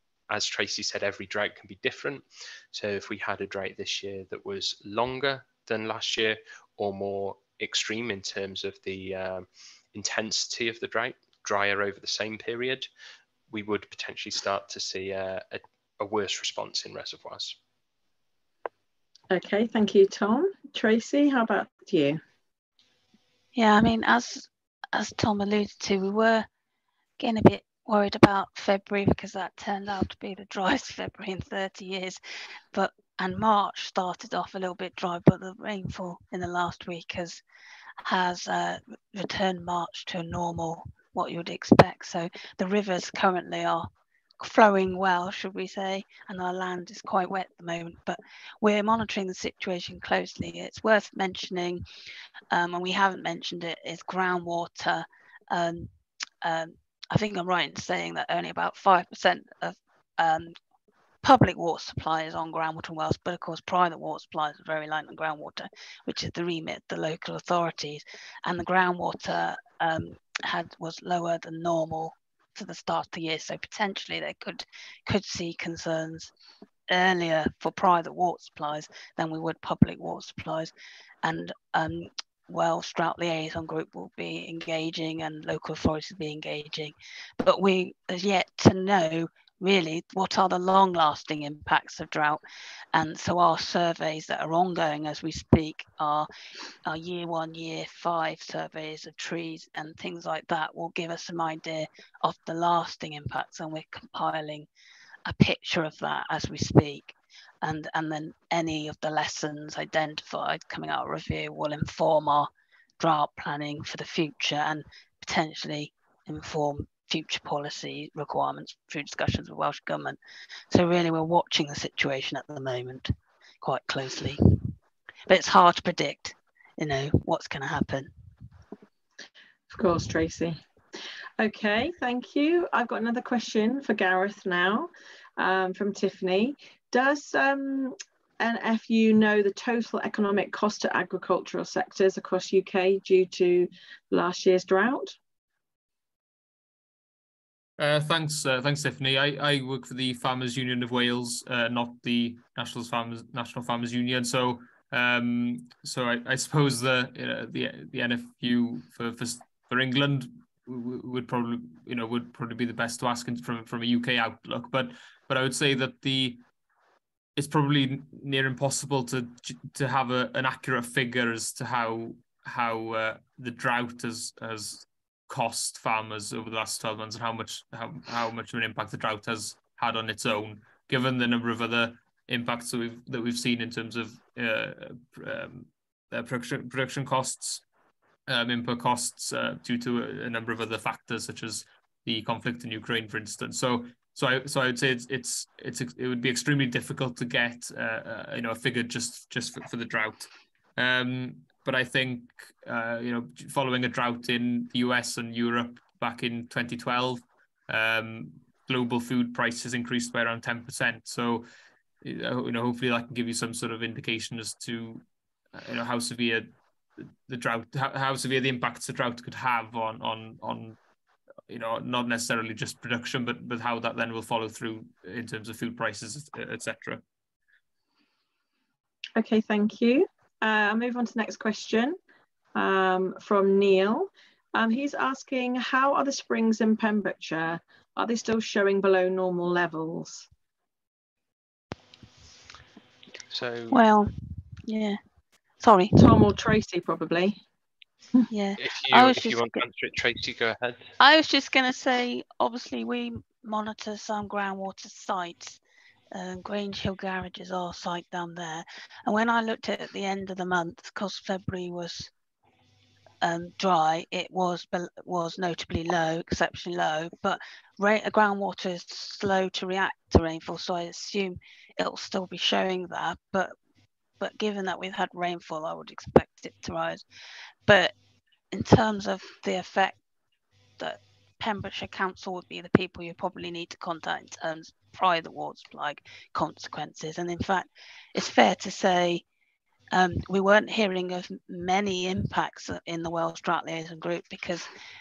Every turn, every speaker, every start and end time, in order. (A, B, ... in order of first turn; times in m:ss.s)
0:00.3-0:12.9 A
0:13.5-0:17.6 A
0:19.3-0:22.2 B
0:23.5-0:26.5 C
0:27.2-0:32.2 C
0:32.7-0:37.4 C
0:38.0-0:51.8 C
0:52.5-1:00.5 C
1:01.2-1:16.3 C
1:16.9-1:20.7 C
1:21.2-1:32.4 C
1:32.9-1:36.3 C
1:36.8-1:44.7 C
1:45.2-2:00.2 C
2:00.7-2:04.7 C
2:05.3-2:08.1 C
2:09.7-2:10.6 B
2:11.4-2:25.2 B
2:27.8-2:46.4 D
2:47.4-3:07.6 D
3:08.3-3:31.4 D
3:32.0-3:40.8 D
3:41.5-3:47.0 D
3:49.2-3:52.0 B
3:52.5-4:00.3 B
4:03.3-4:03.8 A
4:03.7-4:04.1 C
4:04.6-4:05.0 C
4:05.6-4:06.0 C
4:05.9-4:07.4 B
4:08.3-4:09.6 C
4:08.6-4:10.8 A
4:11.0-4:15.6 C
4:16.1-4:22.1 C
4:23.2-4:33.5 C
4:34.2-4:37.0 C
4:37.7-4:37.9 C
4:38.5-4:40.0 C
4:40.8-4:49.2 C
4:49.9-4:54.7 C